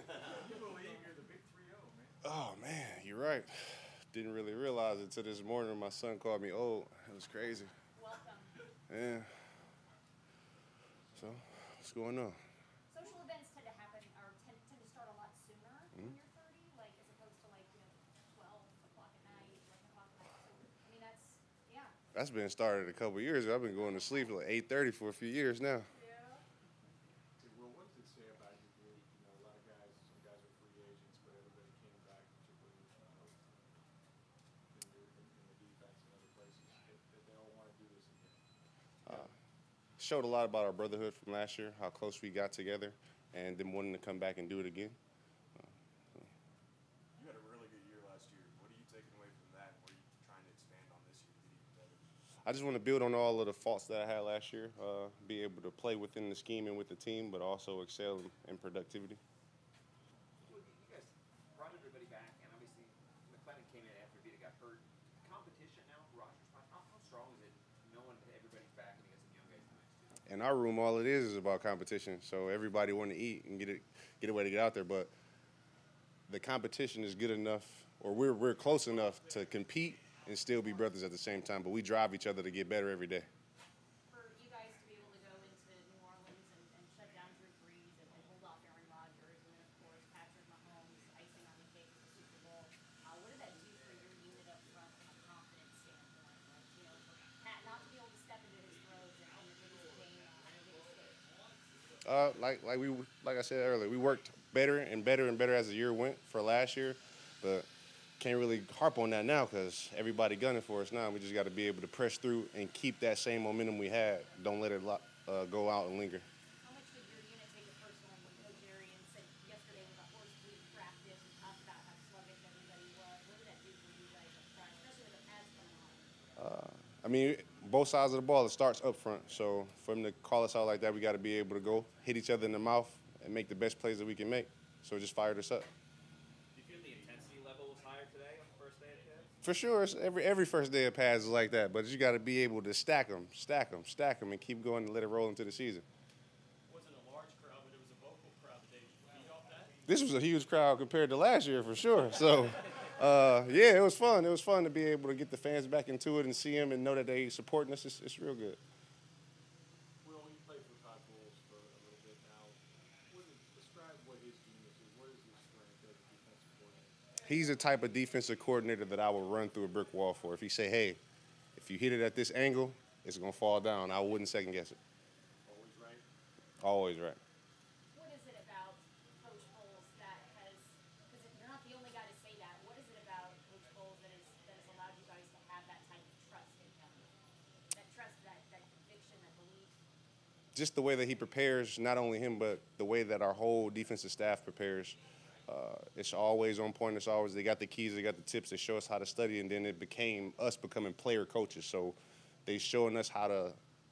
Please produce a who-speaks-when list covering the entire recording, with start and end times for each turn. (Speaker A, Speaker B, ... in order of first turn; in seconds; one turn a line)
Speaker A: 0.1-2.1
Speaker B: 2.2-7.7
Speaker C: 8.0-8.6
Speaker B: 8.9-9.3
Speaker B: 11.2-12.4
Speaker C: 12.9-21.9
Speaker B: 22.1-25.9
Speaker C: 23.8-24.3
Speaker C: 25.9-26.4
Speaker A: 27.4-33.5
Speaker A: 34.7-38.4
Speaker B: 40.0-45.0
Speaker B: 45.6-46.3
Speaker B: 52.5-59.2
Speaker D: 60.4-70.2
Speaker B: 70.3-75.1
Speaker B: 76.3-83.3
Speaker C: 84.1-101.2
Speaker B: 102.0-107.7
Speaker B: 108.2-116.3
Speaker C: 116.6-126.1
Speaker B: 126.4-135.7
Speaker D: 136.5-139.3
Speaker B: 139.4-145.8
Speaker E: 146.7-149.8
Speaker B: 149.8-158.6
Speaker A: 160.0-167.0
Speaker B: 167.2-171.0
Speaker B: 171.6-174.8
Speaker A: 175.4-176.1
Speaker B: 176.6-177.2
Speaker C: 177.9-187.1
Speaker C: 187.7-189.8
Speaker B: 190.6-203.6